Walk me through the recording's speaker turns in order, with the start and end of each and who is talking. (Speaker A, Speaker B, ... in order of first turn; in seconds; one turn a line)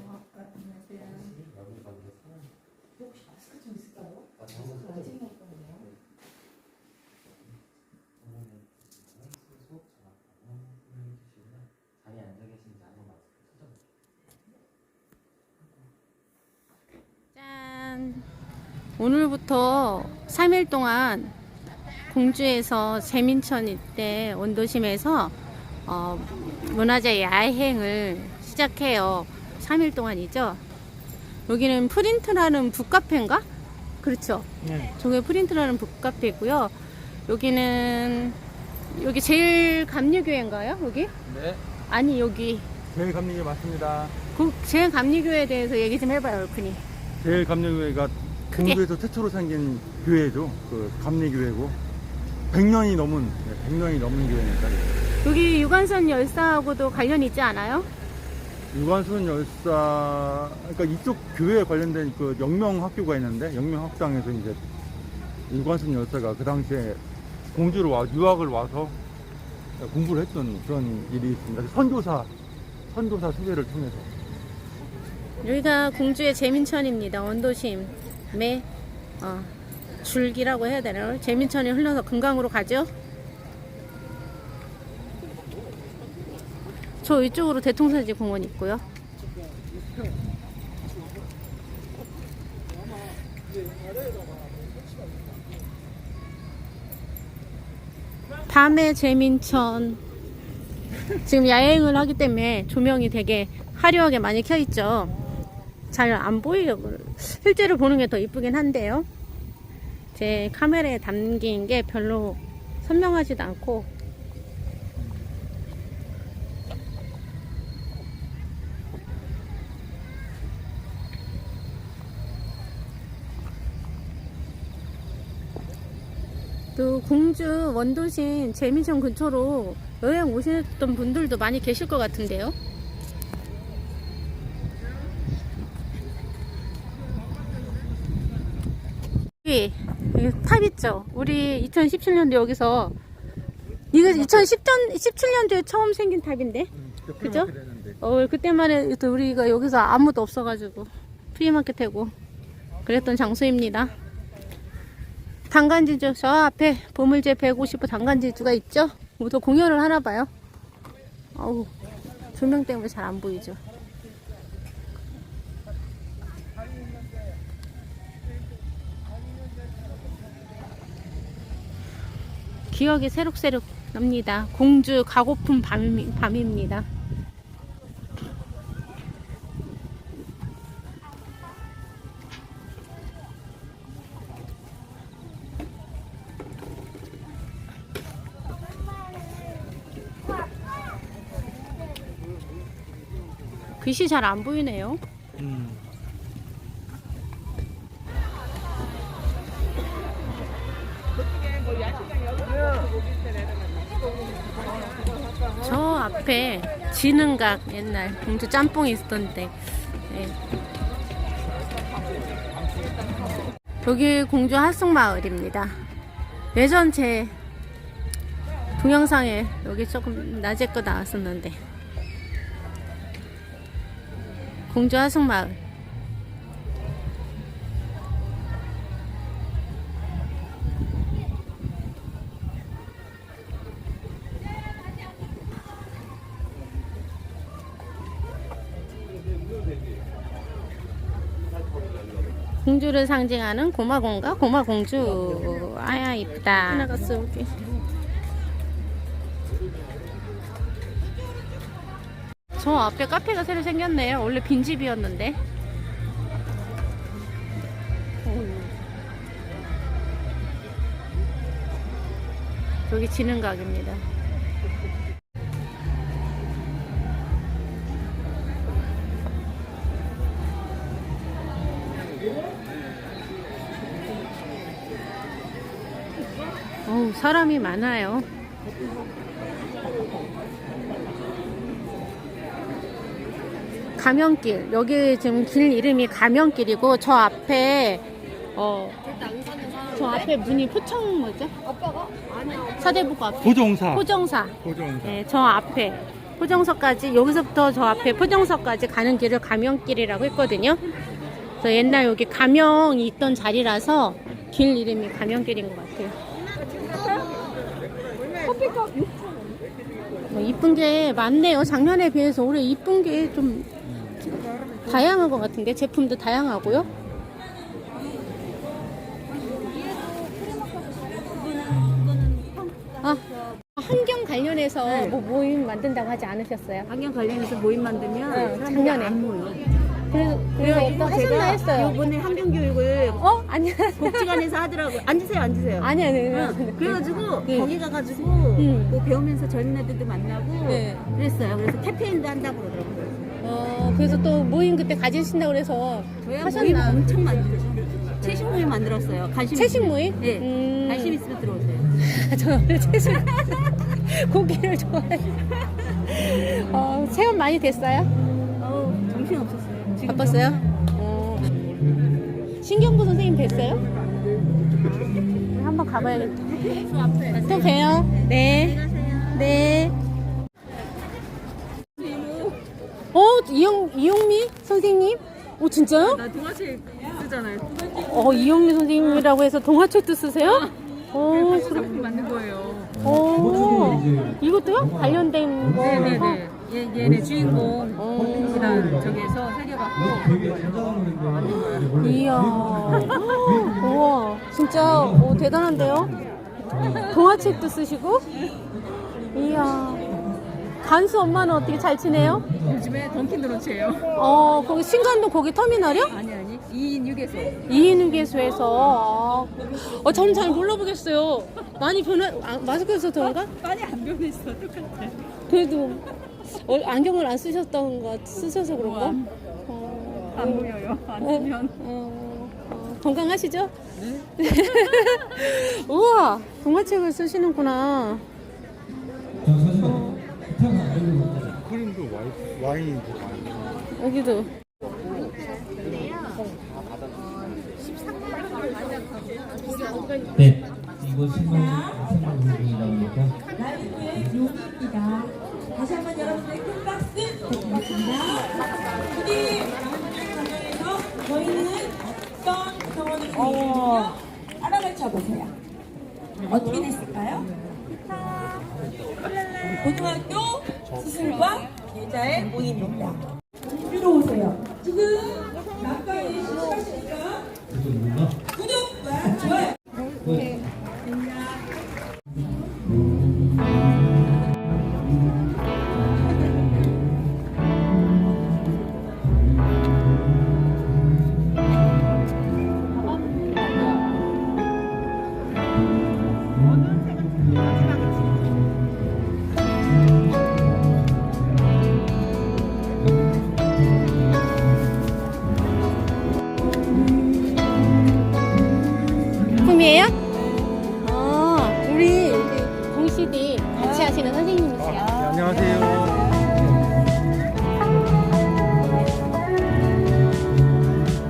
Speaker A: 1.3-2.2
Speaker A: 4.4-5.1
Speaker A: 8.3-8.6
Speaker A: 9.2-13.7
Speaker B: 17.3-18.3
Speaker B: 19.0-21.3
Speaker B: 22.1-30.6
Speaker B: 31.5-33.5
Speaker B: 34.0-36.7
Speaker C: 34.6-34.9
Speaker B: 37.3-38.4
Speaker B: 38.9-41.1
Speaker C: 41.2-41.6
Speaker B: 41.9-42.7
Speaker C: 42.9-44.1
Speaker B: 44.3-46.8
Speaker C: 47.2-51.8
Speaker B: 48.5-48.8
Speaker C: 52.5-55.0
Speaker B: 55.2-57.9
Speaker C: 58.7-64.6
Speaker C: 65.5-67.0
Speaker C: 67.5-68.9
Speaker C: 69.8-72.3
Speaker C: 72.9-74.1
Speaker B: 75.4-78.7
Speaker B: 79.2-82.9
Speaker B: 87.0-88.8
Speaker B: 98.5-100.0
Speaker B: 101.2-105.1
Speaker B: 105.9-109.1
Speaker B: 110.1-113.9
Speaker B: 126.8-132.5
Speaker B: 139.4-142.9
Speaker B: 143.9-152.1
Speaker C: 146.7-148.0
Speaker B: 152.8-153.9
Speaker B: 155.5-160.3
Speaker B: 161.3-161.7
Speaker B: 162.3-163.6
Speaker B: 172.7-176.8
Speaker B: 193.8-195.0
Speaker C: 195.4-195.8
Speaker B: 205.6-210.3
Speaker B: 213.8-215.8
Speaker B: 216.5-217.3
Speaker B: 218.8-221.6
Speaker B: 224.7-225.6
Speaker B: 242.6-247.5
Speaker B: 252.6-255.4
Speaker B: 258.2-258.7
Speaker B: 262.9-264.0
Speaker B: 276.9-278.3
Speaker B: 284.0-289.0
Speaker B: 289.8-291.5
Speaker B: 292.4-300.8
Speaker C: 293.4-294.1
Speaker C: 294.6-295.2
Speaker B: 301.6-306.2
Speaker D: 307.0-307.3
Speaker D: 308.3-309.2
Speaker B: 310.3-313.7
Speaker B: 314.8-316.9
Speaker D: 319.5-322.9
Speaker B: 323.7-326.9
Speaker D: 324.8-325.1
Speaker D: 326.9-333.2
Speaker B: 328.3-329.2
Speaker B: 330.1-331.9
Speaker B: 333.2-334.4
Speaker D: 334.0-343.3
Speaker B: 335.8-337.7
Speaker B: 338.6-339.0
Speaker B: 340.6-341.1
Speaker B: 343.4-347.0
Speaker D: 346.2-351.9
Speaker B: 349.5-351.2
Speaker B: 352.0-358.1
Speaker D: 358.6-360.5
Speaker B: 360.0-361.5
Speaker B: 362.6-363.8
Speaker B: 364.9-366.5
Speaker D: 366.5-369.5
Speaker B: 367.3-369.9
Speaker D: 372.0-372.6
Speaker B: 373.1-376.2
Speaker D: 376.1-378.1
Speaker B: 377.9-382.2
Speaker D: 381.7-382.9
Speaker B: 382.9-386.4
Speaker D: 385.7-390.2
Speaker B: 387.9-389.1
Speaker C: 388.8-389.2
Speaker C: 390.0-393.1
Speaker B: 391.7-396.2
Speaker B: 396.7-398.3
Speaker B: 399.3-400.1
Speaker B: 400.8-402.5
Speaker D: 402.5-404.1
Speaker B: 404.1-406.1
Speaker D: 406.1-407.7
Speaker B: 407.7-413.5
Speaker D: 413.5-415.2
Speaker B: 415.5-428.2
Speaker D: 420.4-421.7
Speaker B: 429.6-430.2
Speaker A: 430.5-431.4
Speaker C: 431.4-433.8
Speaker B: 433.9-434.5
Speaker D: 435.2-436.5
Speaker D: 437.1-440.4
Speaker A: 440.4-441.3
Speaker E: 441.4-442.1
Speaker A: 442.3-443.3
Speaker E: 443.5-455.5
Speaker D: 453.4-454.1
Speaker E: 456.5-457.4
Speaker E: 459.3-463.2
Speaker D: 462.4-462.9
Speaker E: 463.8-467.5
Speaker D: 463.9-464.3
Speaker C: 467.7-468.3
Speaker E: 468.5-469.7
Speaker E: 471.1-471.6
Speaker D: 483.3-484.0
Speaker D: 487.6-488.2
Speaker B: 499.6-500.1
Speaker B: 501.0-505.1
Speaker C: 504.8-506.4
Speaker D: 505.2-506.8